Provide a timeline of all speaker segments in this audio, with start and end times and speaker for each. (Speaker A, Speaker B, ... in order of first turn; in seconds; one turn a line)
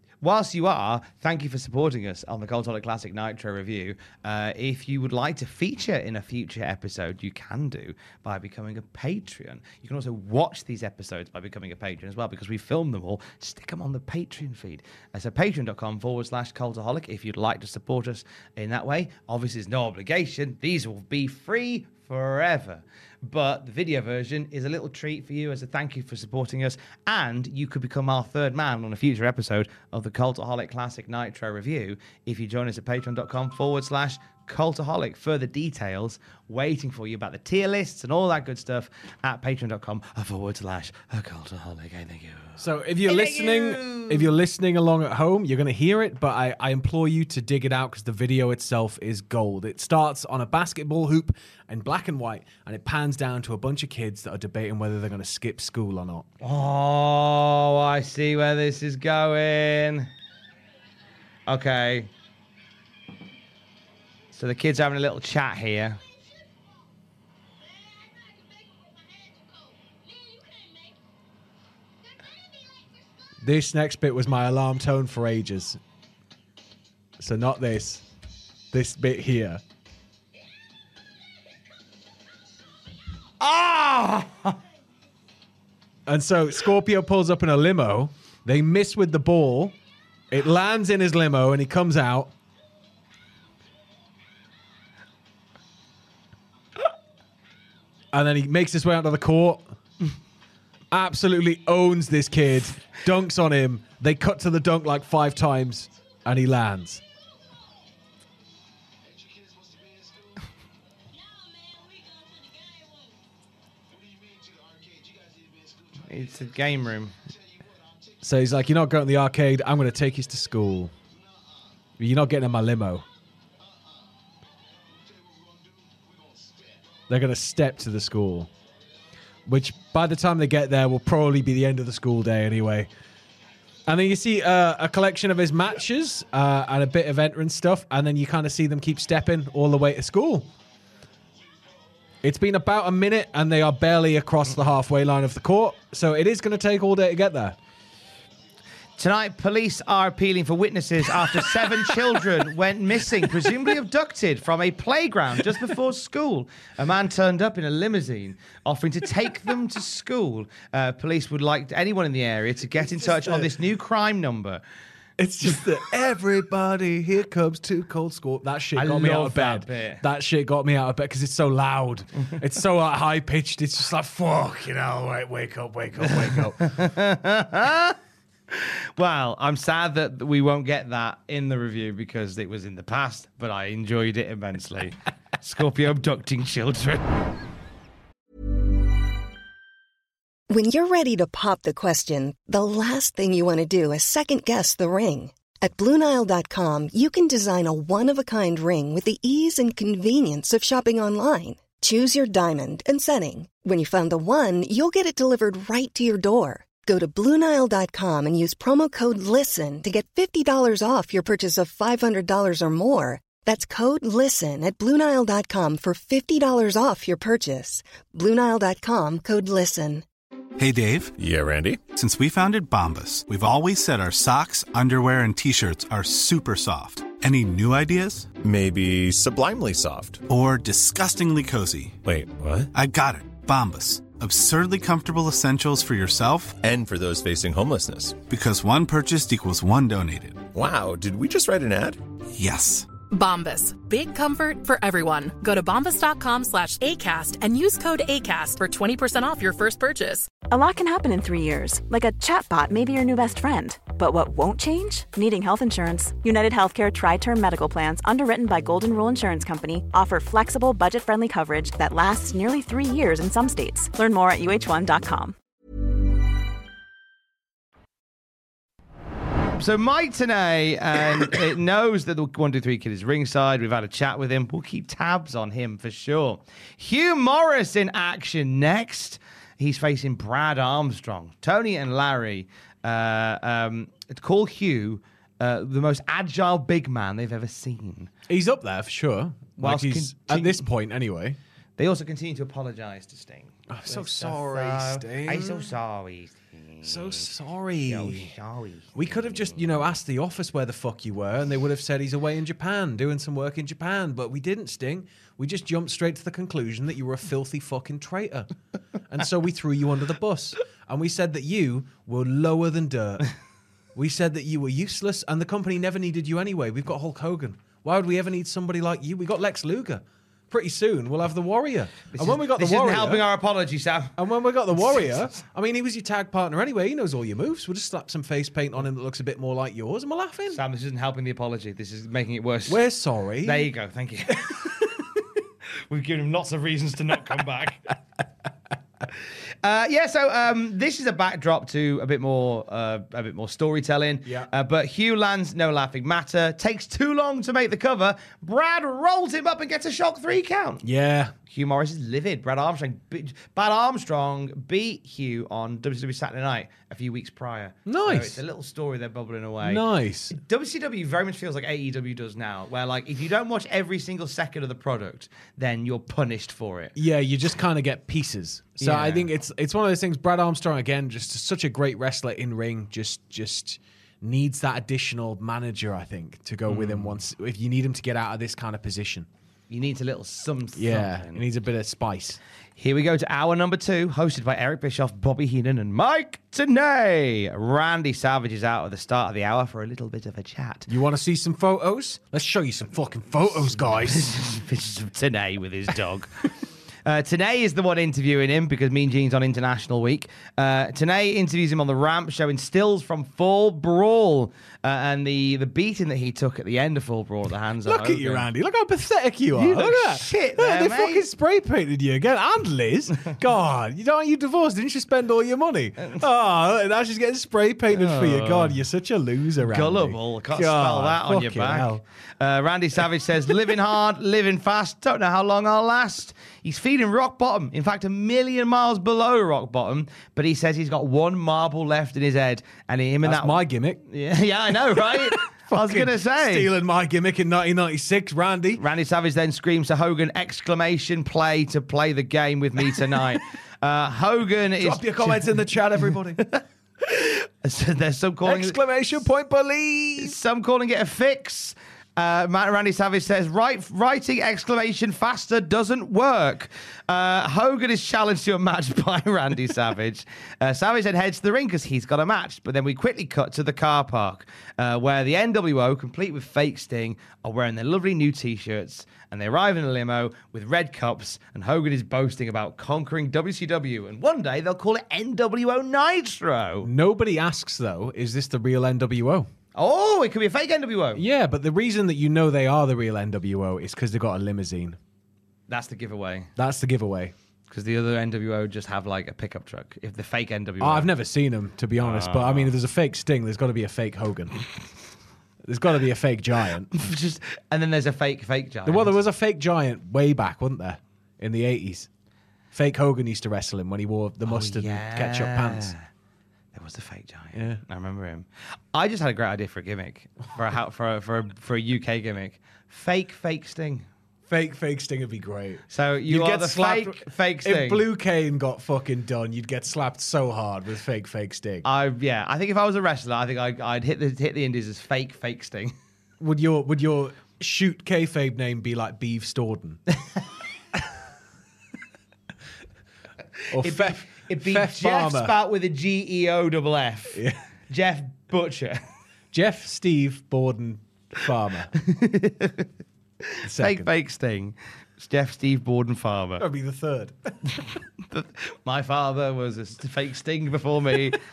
Speaker A: 0.2-44.3
Speaker B: 42.6-56.3
Speaker A: 56.4-60.1
Speaker A: 61.5-62.1
Speaker A: 64.3-66.0
Speaker B: 73.4-75.8
Speaker B: 77.2-78.0
Speaker B: 78.7-79.6
Speaker A: 83.4-84.6
Speaker B: 86.1-89.8
Speaker B: 90.3-92.3
Speaker B: 98.1-99.7
Speaker B: 100.9-107.0
Speaker A: 116.1-117.2
Speaker B: 118.2-120.9
Speaker B: 122.0-123.0
Speaker B: 127.1-128.5
Speaker B: 129.5-132.9
Speaker B: 133.9-140.5
Speaker B: 142.2-147.6
Speaker A: 149.0-164.6
Speaker B: 162.8-163.5
Speaker B: 165.2-176.8
Speaker A: 168.8-170.0
Speaker A: 176.0-178.0
Speaker A: 178.5-187.2
Speaker C: 190.5-220.1
Speaker D: 220.6-221.2
Speaker E: 221.2-221.8
Speaker D: 221.9-228.3
Speaker E: 228.4-230.2
Speaker D: 230.3-232.0
Speaker E: 232.1-232.7
Speaker D: 232.7-236.6
Speaker E: 236.6-238.2
Speaker D: 238.2-240.5
Speaker E: 240.5-242.0
Speaker D: 242.3-242.9
Speaker F: 243.1-250.3
Speaker G: 250.4-265.4
Speaker A: 269.6-288.1
Speaker B: 288.3-291.4
Speaker A: 289.6-290.6
Speaker A: 291.8-297.3
Speaker B: 293.7-295.7
Speaker B: 296.8-298.3
Speaker A: 297.9-299.7
Speaker B: 298.9-308.5
Speaker B: 309.1-313.3
Speaker B: 313.9-323.2
Speaker A: 322.1-324.1
Speaker B: 324.2-330.6
Speaker A: 330.5-332.8
Speaker B: 332.7-333.7
Speaker A: 333.4-334.8
Speaker A: 335.9-337.9
Speaker A: 339.6-350.9
Speaker B: 344.2-344.5
Speaker B: 350.8-351.3
Speaker A: 351.5-366.9
Speaker B: 357.9-358.4
Speaker B: 359.6-360.4
Speaker B: 367.0-379.3
Speaker A: 368.8-369.3
Speaker A: 376.7-377.2
Speaker A: 379.7-381.4
Speaker B: 380.8-382.4
Speaker A: 382.8-390.9
Speaker B: 390.9-394.3
Speaker A: 394.0-396.5
Speaker A: 397.1-408.5
Speaker B: 407.9-422.0
Speaker A: 409.6-411.3
Speaker A: 417.9-418.8
Speaker A: 419.6-436.7
Speaker B: 433.2-434.0
Speaker B: 434.8-438.8
Speaker A: 438.8-448.8
Speaker B: 444.8-446.4
Speaker B: 448.4-450.4
Speaker A: 450.2-476.9
Speaker B: 476.8-479.5
Speaker A: 479.8-481.2
Speaker B: 481.2-485.0
Speaker A: 485.7-486.5
Speaker B: 486.6-487.3
Speaker A: 487.7-491.1
Speaker B: 490.8-494.5
Speaker A: 492.0-492.7
Speaker B: 495.6-496.9
Speaker A: 496.9-499.2
Speaker B: 498.9-502.1
Speaker B: 502.7-506.0
Speaker A: 504.5-506.1
Speaker A: 506.7-514.0
Speaker B: 507.5-507.8
Speaker B: 514.5-521.9
Speaker A: 515.9-518.0
Speaker A: 521.8-525.9
Speaker B: 526.4-530.0
Speaker B: 533.7-535.5
Speaker A: 533.8-539.0
Speaker B: 539.5-541.9
Speaker A: 542.0-542.9
Speaker B: 543.6-544.1
Speaker A: 543.6-546.6
Speaker B: 546.6-547.8
Speaker A: 548.3-551.4